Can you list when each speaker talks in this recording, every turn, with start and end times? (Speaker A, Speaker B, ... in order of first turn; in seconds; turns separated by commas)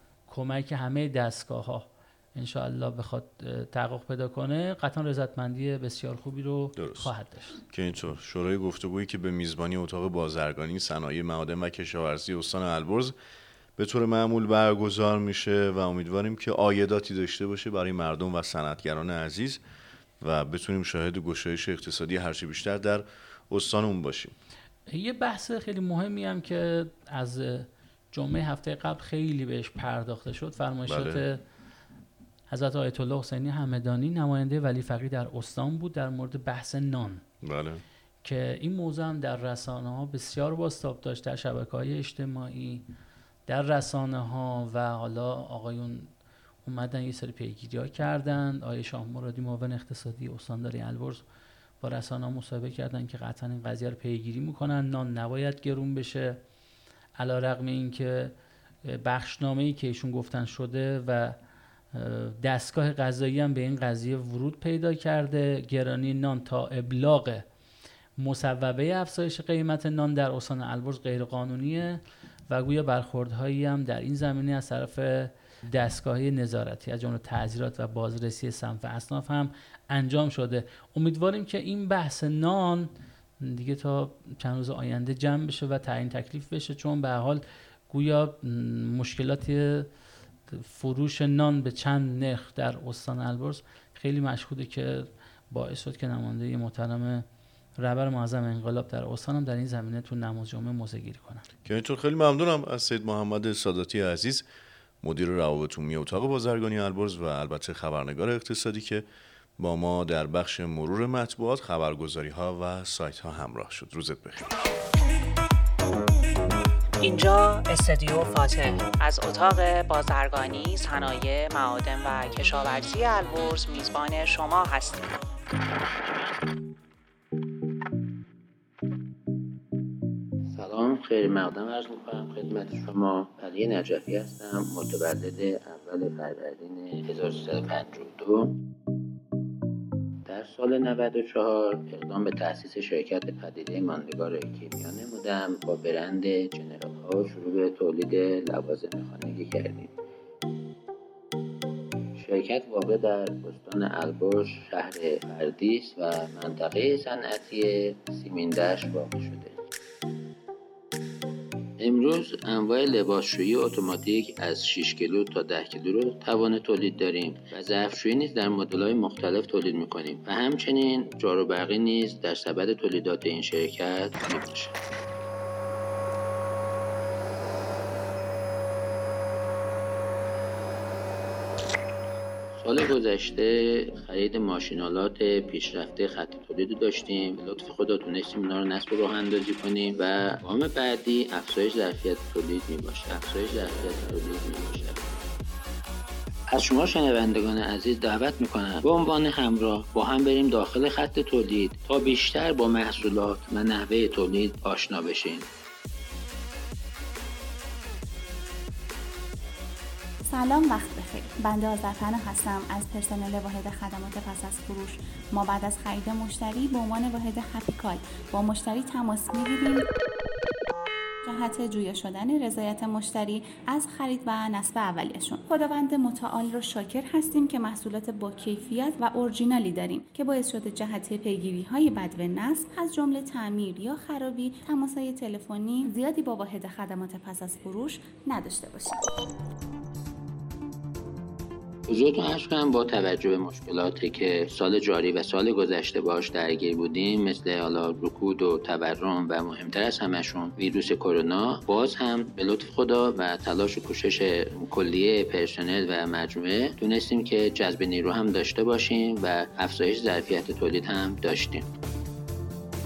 Speaker A: 0.3-7.6, Speaker B: 6.8-7.1, Speaker B: 7.7-13.1, Speaker B: 13.8-19.6, Speaker B: 20.2-24.4, Speaker A: 24.9-31.4, Speaker B: 30.9-31.2, Speaker A: 32.5-37.2, Speaker B: 37.4-37.8, Speaker A: 38.2-42.9, Speaker A: 43.5-46.1, Speaker A: 46.6-51.2, Speaker A: 51.8-56.4, Speaker A: 57.2-58.3, Speaker A: 58.9-61.4, Speaker A: 61.9-67.5, Speaker A: 68.2-89.9, Speaker A: 90.5-97.3, Speaker A: 97.8-101.4, Speaker B: 101.7-104.5, Speaker B: 105.0-109.0, Speaker B: 109.6-114.5, Speaker C: 117.0-125.2, Speaker D: 130.5-138.6, Speaker D: 140.3-149.9, Speaker D: 152.2-159.6, Speaker D: 161.8-174.8, Speaker D: 182.6-195.1, Speaker D: 196.5-205.4, Speaker E: 210.3-219.8, Speaker E: 221.2-239.0, Speaker D: 241.9-261.7